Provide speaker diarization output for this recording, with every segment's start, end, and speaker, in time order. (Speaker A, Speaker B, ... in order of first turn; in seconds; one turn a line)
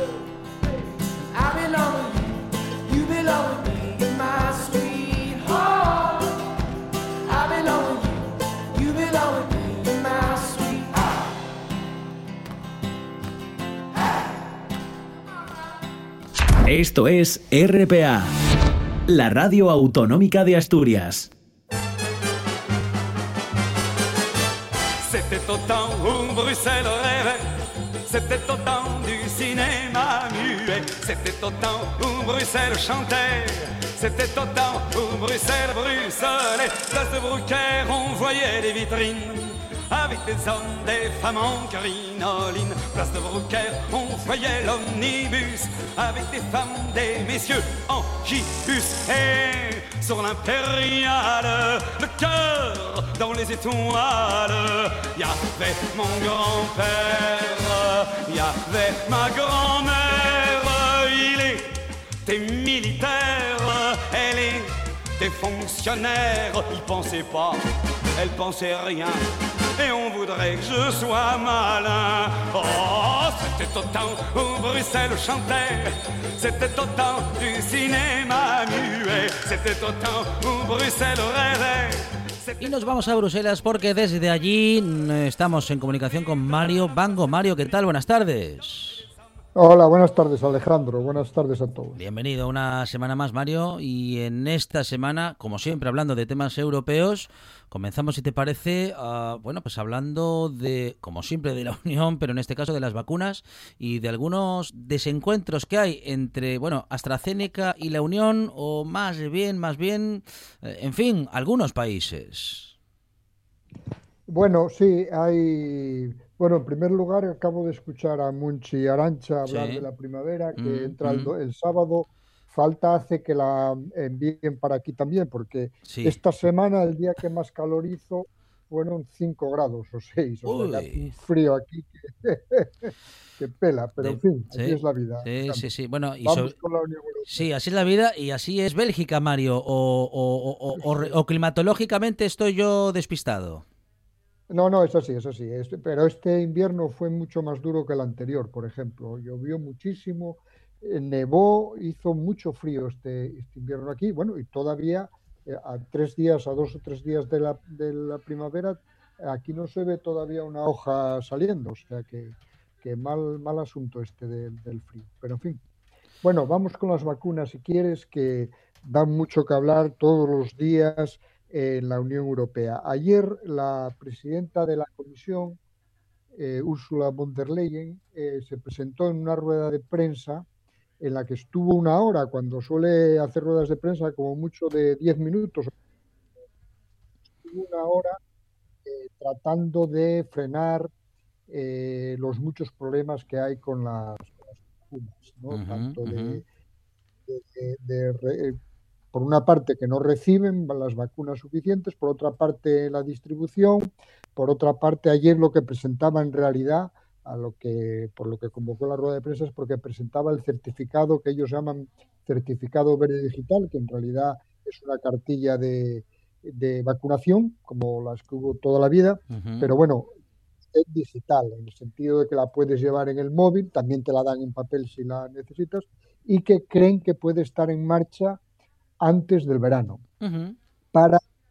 Speaker A: 1.3-6.3
Speaker A: 7.2-10.9
Speaker B: 16.6-18.3
Speaker B: 19.1-21.3
Speaker C: 25.0-27.5
Speaker C: 28.1-61.7
Speaker C: 62.2-69.2
Speaker C: 69.8-82.7
Speaker D: 82.6-89.1
Speaker E: 89.5-92.0
Speaker D: 92.0-112.7
Speaker E: 114.3-135.7
Speaker D: 119.4-119.9
Speaker D: 120.6-121.3
Speaker D: 125.8-126.2
Speaker D: 130.4-131.1
Speaker D: 134.0-136.5
Speaker E: 136.2-137.5
Speaker D: 137.3-143.6
Speaker E: 140.8-141.1
Speaker E: 144.5-165.6
Speaker E: 166.2-175.6
Speaker E: 176.3-180.4
Speaker E: 181.0-185.7
Speaker E: 187.3-188.2
Speaker E: 188.8-190.9
Speaker E: 191.5-196.4
Speaker D: 195.5-196.4
Speaker E: 197.3-198.6
Speaker E: 199.1-220.1
Speaker D: 219.3-219.7
Speaker E: 220.7-228.4
Speaker E: 229.0-230.0
Speaker D: 230.2-230.6
Speaker E: 230.9-231.2